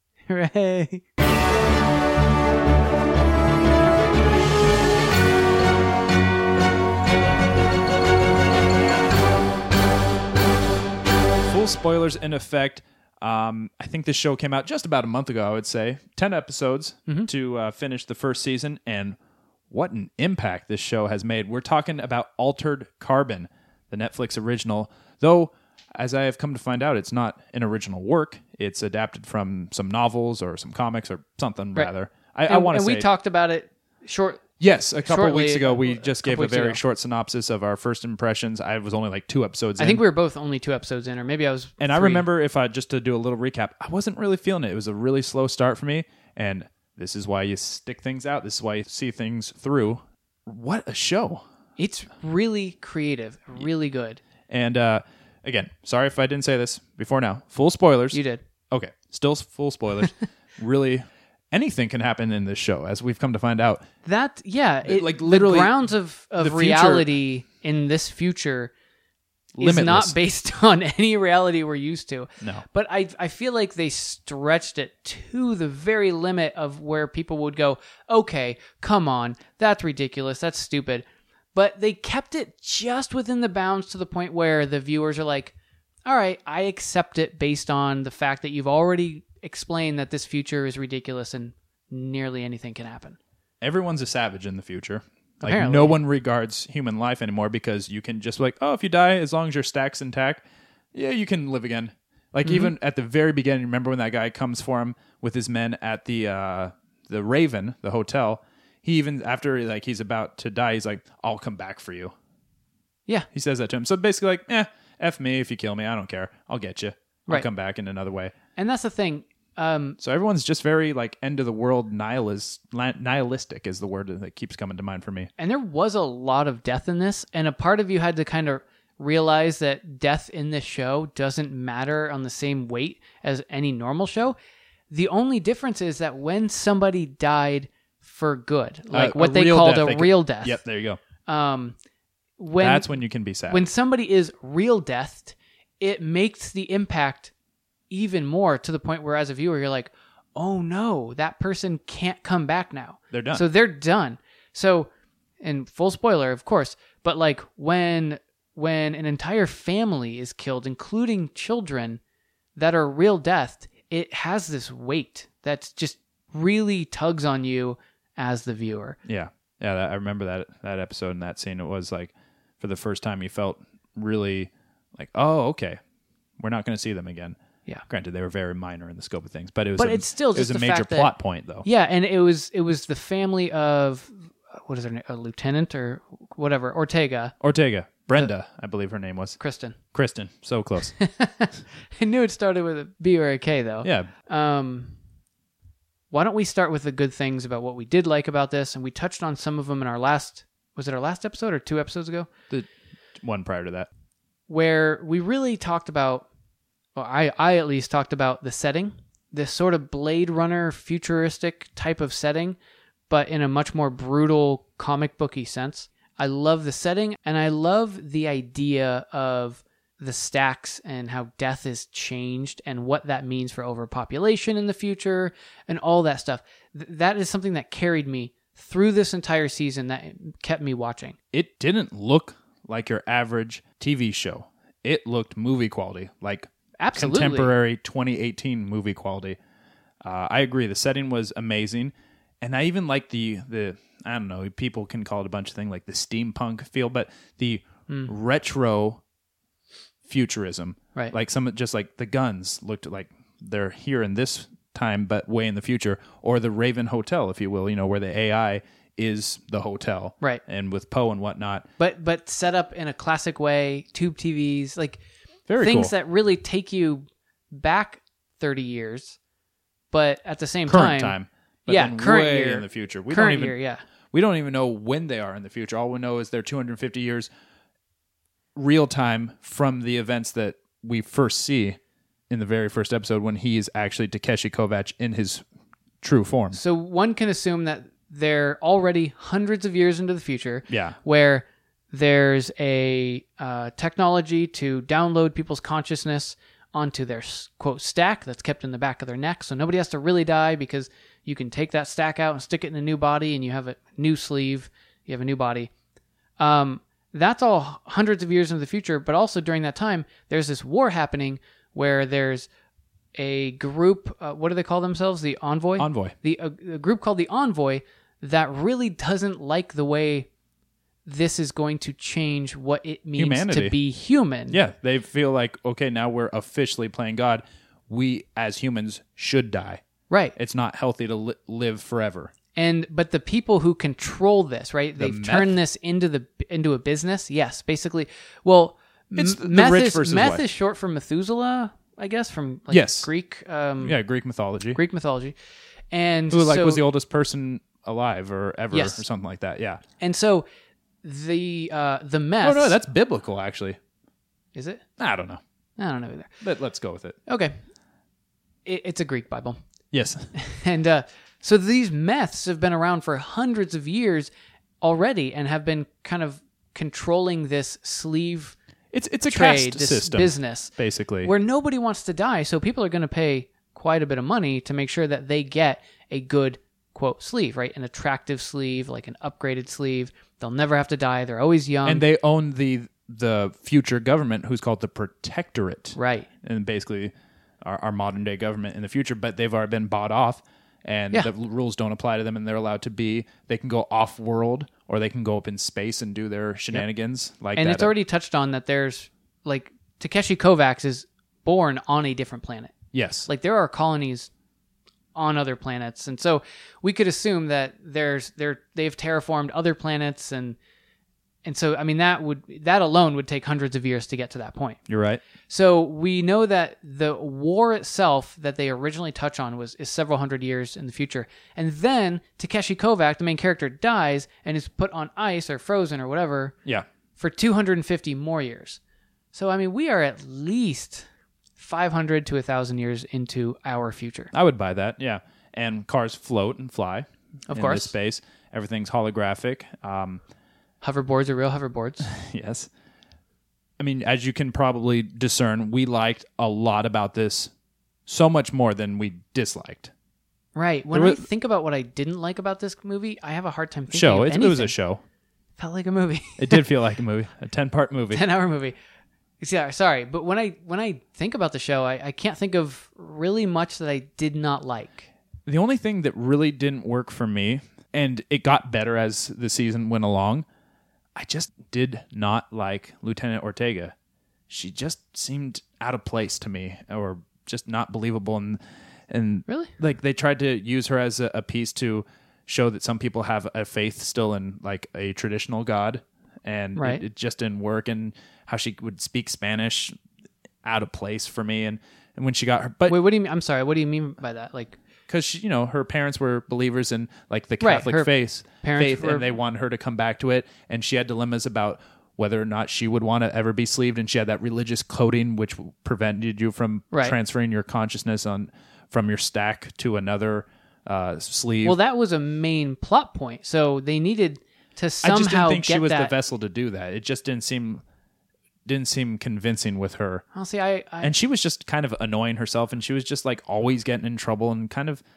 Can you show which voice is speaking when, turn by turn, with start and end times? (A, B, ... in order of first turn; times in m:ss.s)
0:00.3-0:01.0 A
0:11.4-0:19.2 B
0:19.7-0:33.1 B
0:32.5-0:34.4 A
0:34.6-0:40.0 B
0:35.0-0:36.8 A
0:39.8-0:42.2 A
0:41.8-0:51.4 B
0:51.8-0:54.2 A
0:54.5-0:58.2 B
0:58.1-0:58.4 A
0:58.7-1:03.8 B
1:04.0-1:08.7 A
1:04.8-1:05.8 B
1:06.4-1:07.1 B
1:09.5-1:10.1 B
1:09.6-1:25.5 A
1:26.0-1:33.2 A
1:33.6-1:40.4 B
1:35.4-1:36.0 A
1:40.9-1:52.1 B
1:42.4-1:42.7 A
1:53.3-1:58.3 B
1:58.6-2:00.0 A
2:00.0-2:05.3 B
2:05.4-2:14.4 A
2:14.9-2:20.6 A
2:18.9-2:21.0 B
2:21.2-2:21.8 A
2:22.4-2:22.9 A
2:22.6-2:23.7 B
2:23.5-2:27.3 A
2:27.9-2:34.9 A
2:33.1-2:33.4 B
2:35.4-2:42.0 A
2:42.6-2:49.0 A
2:49.0-2:55.8 B
2:56.4-2:57.4 B
2:57.9-3:01.6 B
2:59.8-3:01.1 A
3:01.6-3:07.3 A
3:07.4-3:09.4 B
3:09.4-3:09.8 A
3:09.9-3:10.9 B
3:11.0-3:15.0 A
3:13.8-3:14.1 B
3:16.1-3:22.3 A
3:23.2-3:23.9 B
3:24.5-3:26.2 A
3:26.9-3:32.6 A
3:33.1-3:51.2 A
3:51.3-3:59.4 B
3:56.8-3:57.5 A
4:00.0-4:09.0 B
4:10.0-4:21.7 B
4:21.8-4:25.0 A
4:25.5-4:25.9 B
4:25.6-4:29.2 A
4:29.9-4:33.8 A
4:30.7-4:33.6 B
4:34.1-4:37.3 B
4:38.5-4:41.8 B
4:42.3-4:45.4 B
4:46.0-4:46.6 B
4:46.5-5:05.7 A
4:50.7-4:51.0 B
5:06.4-5:12.5 A
5:13.1-5:20.3 A
5:15.8-5:16.1 B
5:21.0-5:24.6 A
5:23.2-5:23.8 B
5:24.5-5:29.8 B
5:30.1-5:30.3 A
5:30.4-5:32.3 B
5:32.5-5:44.0 A
5:35.0-5:35.6 B
5:39.1-5:40.4 B
5:42.7-5:43.1 B
5:43.8-5:44.8 B
5:44.7-5:45.3 A
5:45.9-5:46.8 A
5:46.3-5:49.8 B
5:48.7-5:49.0 A
5:50.0-5:50.4 A
5:51.0-5:52.8 A
5:52.4-5:53.8 B
5:54.5-5:54.8 A
5:55.0-5:55.4 B
5:55.8-5:56.3 A
5:56.4-5:57.2 B
5:57.3-5:57.6 A
5:58.6-5:59.6 A
5:59.9-6:00.3 B
6:00.3-6:04.3 A
6:04.8-6:08.5 A
6:08.9-6:11.3 B
6:09.2-6:10.7 A
6:11.2-6:22.0 A
6:21.8-6:37.9 B
6:26.0-6:26.3 A
6:37.5-6:42.7 A
6:42.9-6:43.3 B
6:43.2-6:44.3 A
6:45.1-6:50.6 A
6:51.4-6:54.8 A
6:54.9-6:55.2 B
6:55.5-7:06.5 A
7:07.2-7:08.8 A
7:09.3-7:14.3 A
7:14.3-7:20.2 B
7:17.5-7:17.9 A
7:20.8-7:22.1 A
7:22.0-7:22.7 B
7:23.8-7:27.5 B
7:28.1-7:29.9 B
7:30.5-7:34.7 A
7:30.9-7:31.2 B
7:33.9-7:35.0 B
7:35.6-7:36.6 A
7:36.4-7:38.2 B
7:38.1-7:38.8 A
7:39.4-7:45.1 A
7:45.4-7:50.4 B
7:51.1-7:53.9 B
7:54.5-8:09.9 B
7:59.5-7:59.7 A
8:06.8-8:07.0 A
8:10.6-8:13.0 B
8:12.9-8:14.8 A
8:15.1-8:31.8 B
8:17.6-8:19.3 A
8:31.6-8:36.1 A
8:35.0-8:37.8 B
8:38.6-8:40.2 B
8:40.3-8:41.1 A
8:41.0-8:45.0 B